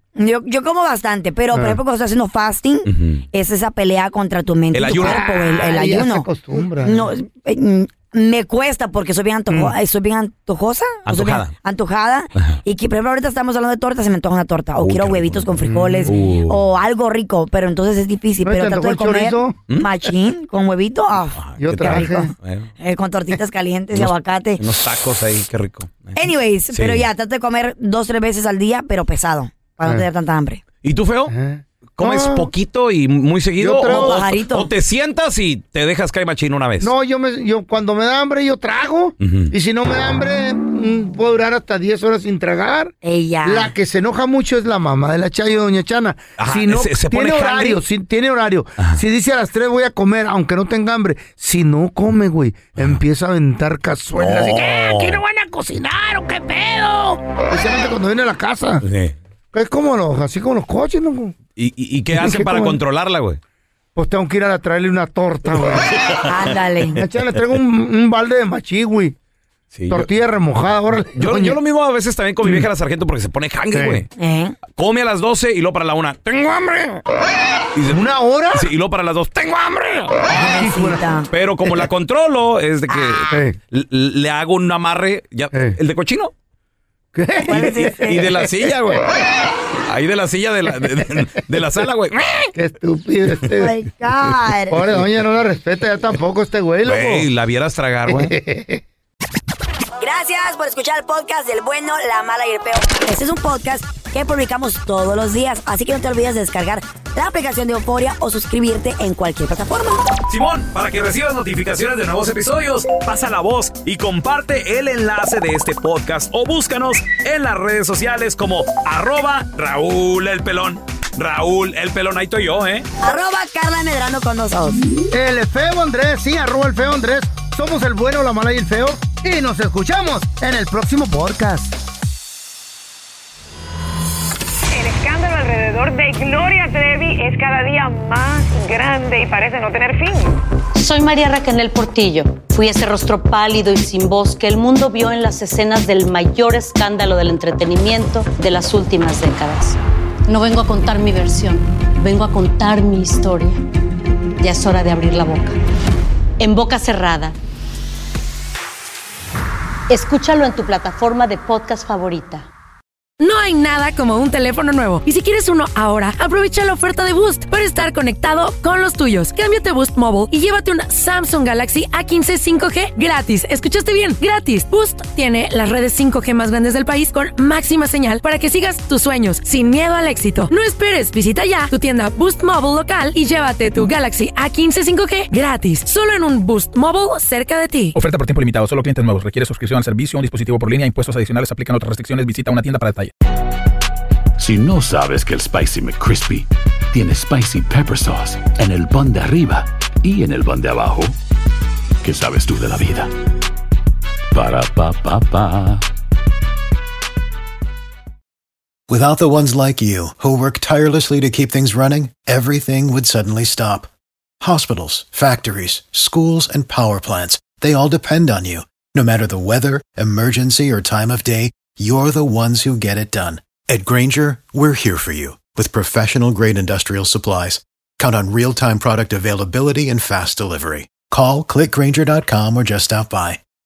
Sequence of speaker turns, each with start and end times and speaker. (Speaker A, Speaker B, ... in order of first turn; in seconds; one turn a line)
Speaker A: 0.2-6.3
Speaker B: 1.5-1.8
Speaker C: 2.9-3.2
Speaker C: 4.7-5.7
Speaker B: 4.9-7.1
Speaker A: 6.8-24.6
Speaker C: 11.1-11.5
Speaker C: 14.8-16.6
Speaker B: 15.6-16.1
Speaker B: 18.4-19.6
Speaker C: 21.4-22.7
Speaker B: 21.6-22.3
Speaker C: 23.9-27.1
Speaker A: 26.2-30.6
Speaker C: 30.8-31.3
Speaker B: 31.3-32.5
Speaker C: 32.0-36.9
Speaker B: 33.6-34.2
Speaker A: 33.9-34.7
Speaker B: 36.8-58.8
Speaker C: 39.2-39.5
Speaker A: 43.0-43.7
Speaker C: 46.4-47.8
Speaker C: 54.2-55.2
Speaker C: 58.8-59.1
Speaker B: 59.5-61.4
Speaker C: 61.6-63.4
Speaker B: 62.2-62.8
Speaker B: 64.0-65.9
Speaker C: 65.6-66.6
Speaker A: 66.2-67.0
Speaker B: 67.0-69.2
Speaker C: 69.7-70.1
Speaker B: 69.9-71.6
Speaker C: 71.2-74.1
Speaker B: 73.7-74.0
Speaker A: 74.2-74.6
Speaker C: 74.7-77.0
Speaker C: 77.8-80.2
Speaker B: 77.9-78.6
Speaker B: 80.3-81.1
Speaker A: 80.3-81.3
Speaker C: 81.3-86.3
Speaker A: 82.9-83.2
Speaker B: 83.3-83.6
Speaker B: 87.2-88.0
Speaker A: 87.5-88.3
Speaker C: 87.5-89.1
Speaker C: 89.9-92.5
Speaker B: 92.5-93.7
Speaker A: 93.6-94.8
Speaker B: 94.7-97.3
Speaker C: 96.8-98.3
Speaker B: 98.1-98.8
Speaker A: 100.0-110.1
Speaker C: 110.3-122.9
Speaker A: 123.0-124.8
Speaker B: 125.1-131.7
Speaker D: 135.0-140.1
Speaker E: 140.8-153.6
Speaker E: 154.4-155.6
Speaker E: 156.4-157.3
Speaker E: 159.9-162.5
Speaker F: 163.2-187.9
Speaker G: 187.9-193.1
Speaker H: 194.4-201.2
Speaker H: 202.0-203.1
Speaker H: 204.3-205.8
Speaker I: 208.9-213.9
Speaker I: 214.4-233.4